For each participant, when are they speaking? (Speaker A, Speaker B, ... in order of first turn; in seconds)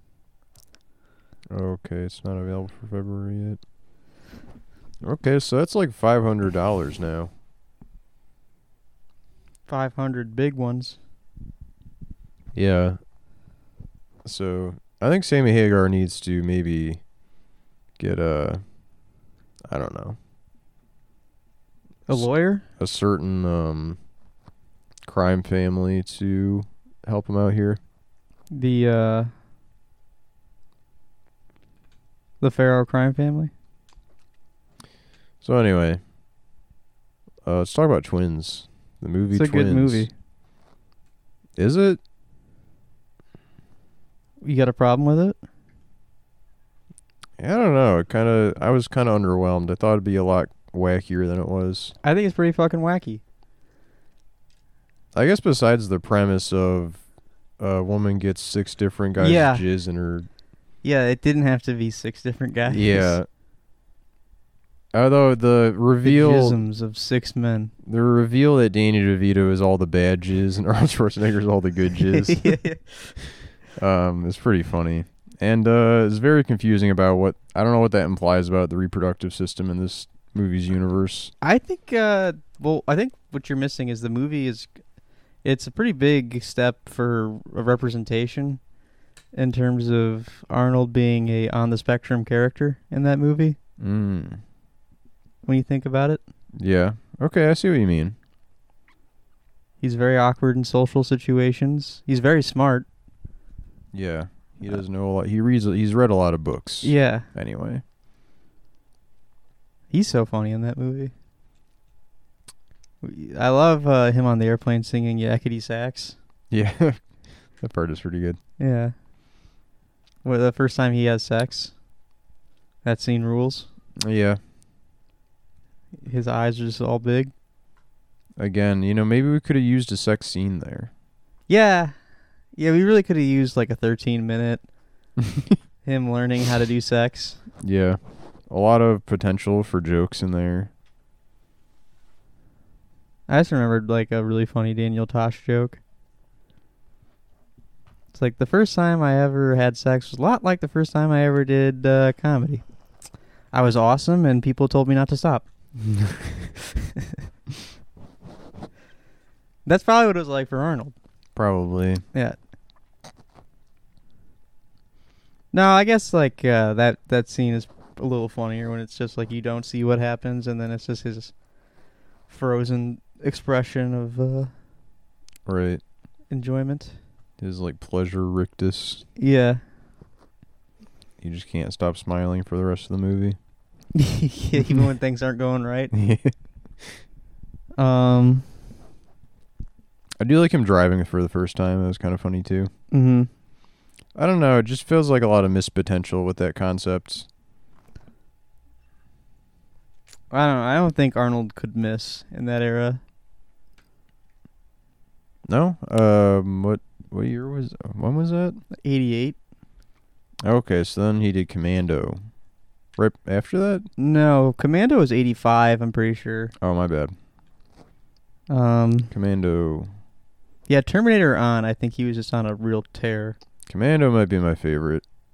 Speaker A: 1.5-3.6, 5.0-7.3, 12.5-13.0, 14.2-17.0, 18.0-18.6, 19.7-20.2, 22.1-24.0, 25.0-27.8, 35.4-36.0, 37.4-40.1, 41.6-42.0, 47.4-51.9, 55.1-57.0, 57.6-60.3, 62.7-63.3, 64.9-66.6, 67.8-72.6, 73.7-81.3, 93.8-94.4, 96.6-98.2, 103.9-107.8, 116.5-117.0, 117.6-118.4, 124.0-124.4, 128.4-130.9, 137.6-140.7, 155.8-156.3, 161.3-162.0, 175.4-175.8, 177.4-179.0, 181.2-183.4, 184.6-184.8, 185.9-187.0, 190.2-192.7, 194.1-197.3, 205.5-208.6, 210.4-212.2, 213.0-213.9, 216.6-217.1, 219.1-219.9, 223.7-225.0
Speaker B: 9.7-11.0, 22.1-22.6, 28.5-29.3, 32.4-33.5, 39.3-40.1, 44.4-45.4, 52.0-53.2, 59.2-59.6, 60.8-63.2, 66.0-67.7, 72.1-73.2, 81.4-84.7, 85.4-88.6, 89.3-93.6, 95.5-96.2, 99.8-102.9, 106.8-107.3, 109.9-111.1, 113.0-116.2, 118.6-118.9, 120.2-121.7, 122.8-123.7, 126.0-127.3, 131.5-131.9, 132.6-134.6, 135.8-137.4, 143.3-145.8, 148.1-152.6, 153.5-155.4, 159.6-160.9, 165.5-171.3, 172.3-174.5, 176.3-176.9, 179.2-179.6, 183.9-185.9, 187.8-188.4, 192.9-193.3, 200.3-203.0, 208.8-209.3, 214.0-216.5, 218.5-219.1, 220.7-223.4